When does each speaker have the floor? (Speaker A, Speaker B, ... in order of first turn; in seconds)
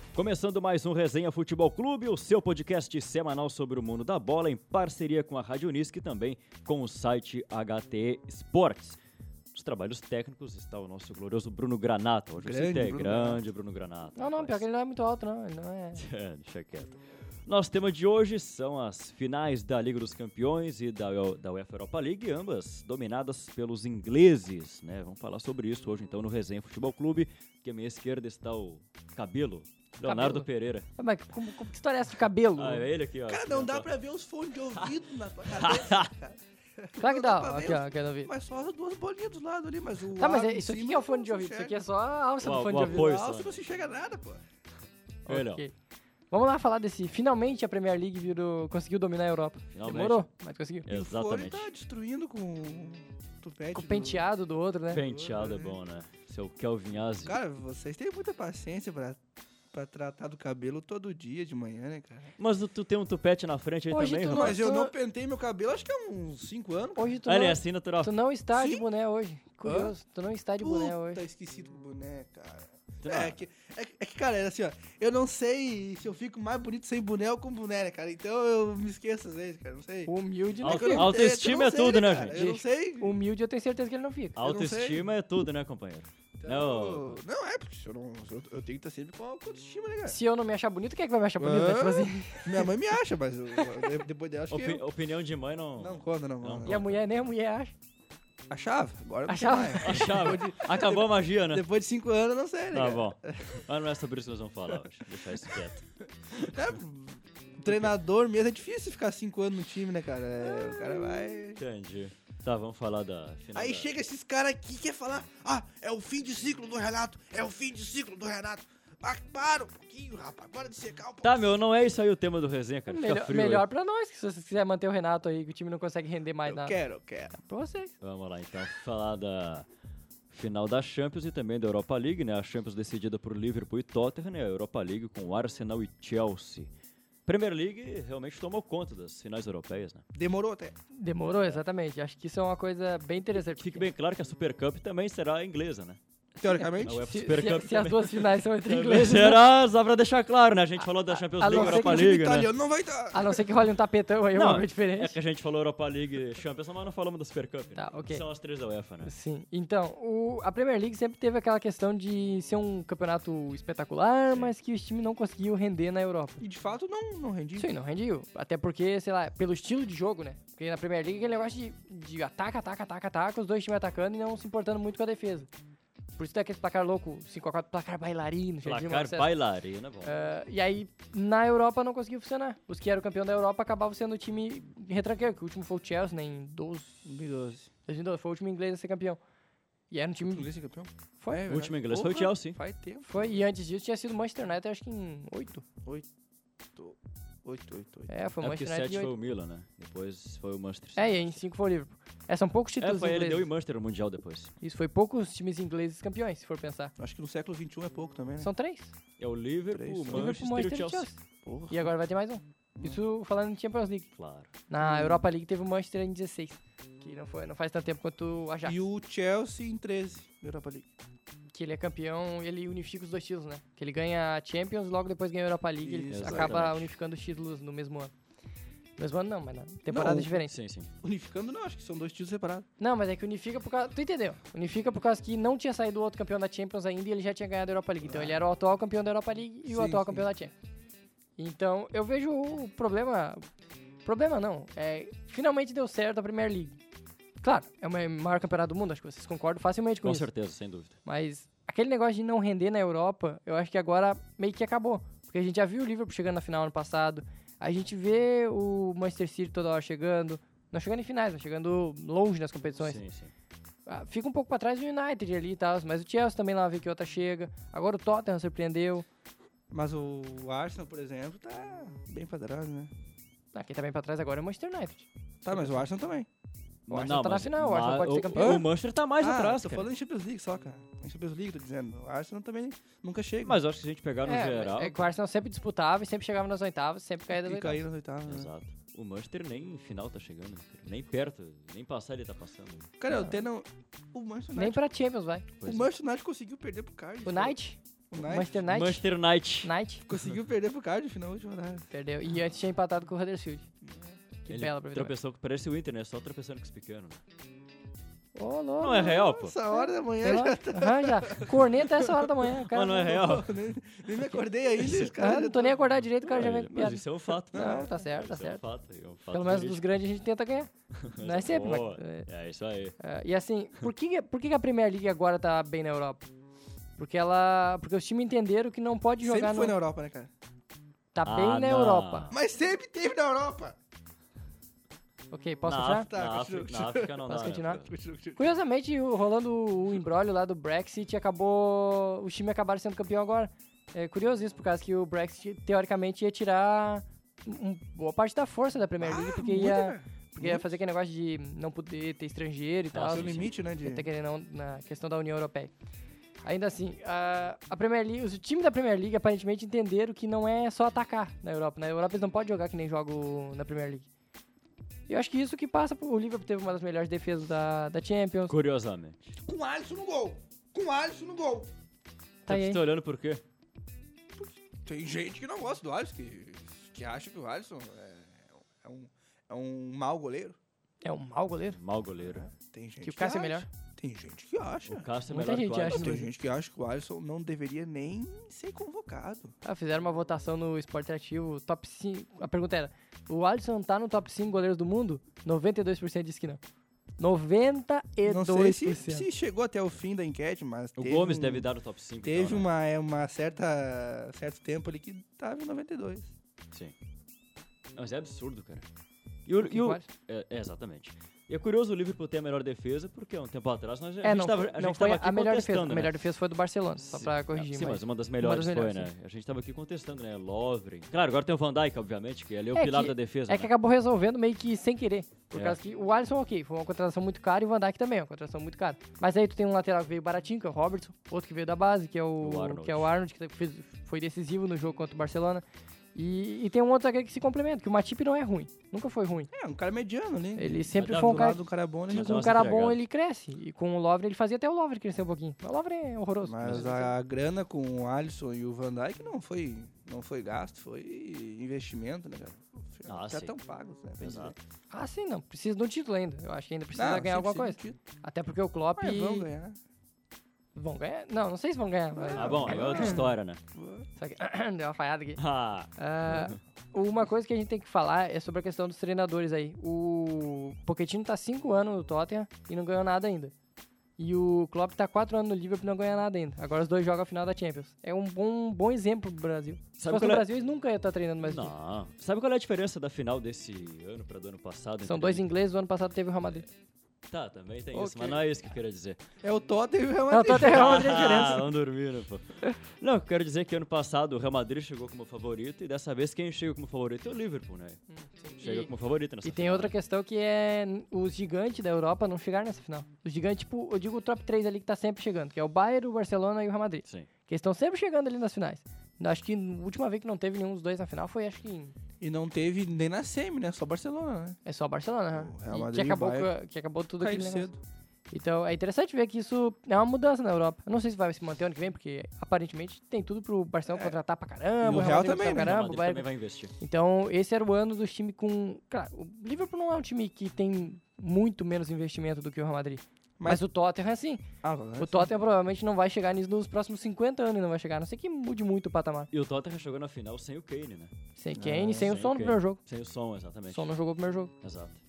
Speaker A: 0.1-9.0, 9.5-14.6, 16.0-30.9, 32.6-33.9, 35.5-36.1, 42.4-43.6, 45.3-45.6, 49.7-50.2, 50.9-51.7, 54.9-57.4, 62.4-64.6, 67.3-68.2, 73.0-73.4, 80.6-82.4, 84.4-87.2, 94.5-97.0, 99.8-101.7, 102.7-106.6, 107.7-107.9, 111.6-113.9, 121.2-123.7, 128.0-129.7, 130.3-136.7, 137.3-140.0, 141.3-141.6, 143.4-146.0, 146.8-152.5, 154.3-159.1, 178.6-180.1, 191.5-192.6, 198.4-201.4, 202.8-204.5, 209.2-211.1, 214.2-214.5, 226.1-226.9, 230.4-230.9, 250.0-250.9, 262.8-263.3, 276.9-279.9, 283.4-285.1, 288.3-292.9, 295.6-295.9, 298.7-299.7, 304.5-307.2, 308.8-309.5, 312.7-313.5, 314.8-315.1, 316.3-319.8, 321.0-323.0, 331.2-332.4, 335.7-337.9, 352.9-353.5, 368.5-369.4, 372.5-373.4, 381.7-382.5, 384.9-386.2, 401.0-402.7, 408.0-408.9, 409.5-416.2, 417.0-423.7, 432.4-433.1, 440.9-441.5, 442.1-443.0, 453.1-453.6, 454.2-454.6, 462.4-463.6, 465.4-466.6, 480.0-480.5, 481.4-485.5, 487.3-489.2, 490.5-492.4, 493.0-498.0, 498.6-499.9, 524.9-526.7, 539.3-541.1, 542.0-543.9, 544.6-545.0
Speaker B: 12.4-13.4, 33.3-41.8, 42.7-44.4, 50.9-54.2, 55.0-55.8, 57.2-59.2, 59.7-62.3, 64.3-67.2, 68.5-68.8, 69.7-69.9, 70.6-83.2, 84.4-85.1, 86.4-90.2, 91.4-94.8, 95.8-96.8, 98.5-103.6, 106.4-111.6, 113.5-121.5, 126.5-127.3, 140.2-140.8, 146.4-147.1, 151.4-153.4, 166.4-167.7, 187.1-187.7, 190.2-193.4, 196.8-198.1, 207.0-208.5, 209.7-210.4, 211.4-211.9, 214.8-215.2, 218.7-220.9, 225.8-226.7, 229.9-230.3, 231.0-232.7, 238.0-238.4, 239.7-240.3, 269.7-272.9, 275.4-276.3, 278.4-283.6, 287.4-288.5, 293.0-294.8, 295.6-297.6, 298.1-298.6, 300.1-301.9, 303.8-304.2, 309.3-315.8, 317.5-317.9, 329.2-330.3, 332.3-333.8, 336.1-337.2, 337.8-338.5, 349.0-350.7, 353.1-354.1, 369.4-371.7, 374.4-380.6, 382.2-385.1, 385.8-389.5, 398.3-401.7, 402.2-406.3, 439.5-442.7, 446.5-454.6, 456.9-458.0, 459.0-459.8, 462.1-464.1, 489.4-491.6, 512.2-514.6, 515.3-516.5, 517.2-517.8, 523.9-524.2, 524.8-525.8, 534.6-535.3, 541.6-542.1
Speaker C: 14.2-16.0, 30.0-32.9, 37.0-38.3, 40.2-43.2, 45.3-45.7, 46.3-50.9, 53.7-55.0, 63.9-64.9, 67.0-71.2, 80.1-81.2, 82.3-84.4, 90.1-92.7, 93.5-93.9, 96.7-97.7, 99.3-100.3, 122.9-126.8, 127.3-127.9, 140.9-143.9, 146.4-149.4, 151.1-152.1, 153.1-155.2, 157.8-158.2, 159.0-166.4, 167.6-175.5, 176.2-179.3, 180.0-187.1, 187.9-189.2, 189.9-190.5, 193.0-195.6, 198.1-199.1, 201.0-203.5, 204.6-206.9, 208.4-208.9, 210.1-214.1, 214.7-218.8, 221.5-228.1, 229.0-230.5, 232.8-240.5, 241.4-243.4, 244.1-246.8, 247.4-250.3, 251.1-263.0, 263.9-269.1, 273.5-275.7, 276.9-278.6, 284.3-287.8, 293.1-293.4, 294.6-295.5, 297.2-299.1, 299.6-300.1, 301.9-303.6, 304.4-305.1, 308.4-313.1, 314.9-318.6, 319.3-322.3, 323.0-326.3, 327.0-329.8, 331.1-332.3, 335.3-336.1, 337.3-337.8, 338.4-355.7, 356.4-364.1, 365.1-368.6, 372.5-372.8, 381.0-381.8, 383.0-383.7, 385.3-386.3, 389.6-396.6, 397.2-399.3, 409.6-410.1, 414.2-419.1, 422.8-435.6, 436.1-439.5, 440.6-447.1, 454.9-459.5, 460.8-463.3, 464.2-465.4, 466.0-473.5, 474.2-481.7, 485.1-486.6, 487.9-488.4, 490.3-491.7, 498.1-498.9, 499.4-511.9, 514.6-517.7, 518.3-526.3, 526.8-534.5, 535.0-539.3, 541.4-542.8, 543.7-544.5